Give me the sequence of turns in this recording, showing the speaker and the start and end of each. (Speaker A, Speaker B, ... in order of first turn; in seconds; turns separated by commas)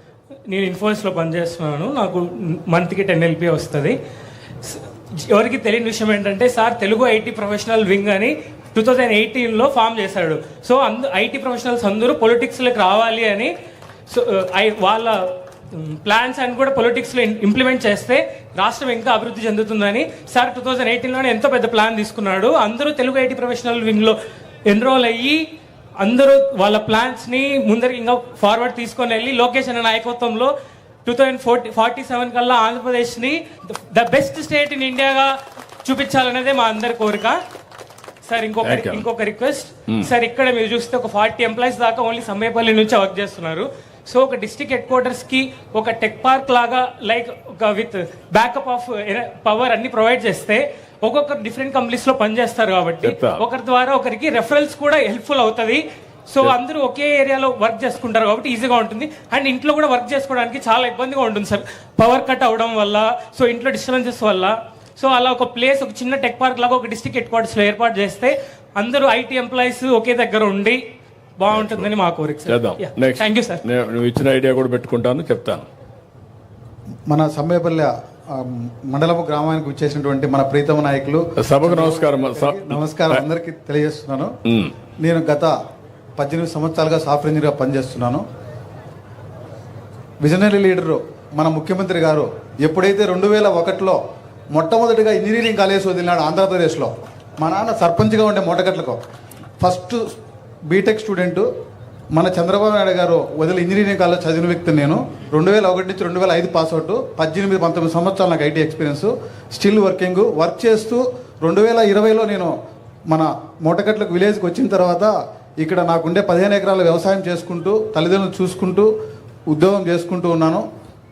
Speaker A: 0.5-4.0, Speaker A: 4.6-13.5, Speaker A: 14.1-15.1, Speaker A: 15.8-24.1, Speaker A: 24.7-25.4, Speaker A: 26.0-30.5, Speaker A: 31.0-35.3, Speaker A: 35.8-37.4, Speaker A: 38.2-70.8, Speaker B: 38.6-39.0, Speaker B: 53.0-53.4, Speaker A: 71.4-73.6, Speaker B: 71.5-71.9, Speaker B: 72.5-75.6, Speaker C: 77.1-84.3, Speaker B: 81.4-83.2, Speaker B: 84.5-84.7, Speaker C: 85.0-85.5, Speaker C: 86.2-88.2, Speaker C: 90.2-94.0, Speaker C: 94.5-99.0, Speaker C: 99.6-100.0, Speaker C: 100.7-101.5, Speaker C: 102.1-112.5, Speaker C: 113.1-118.9, Speaker C: 119.5-120.6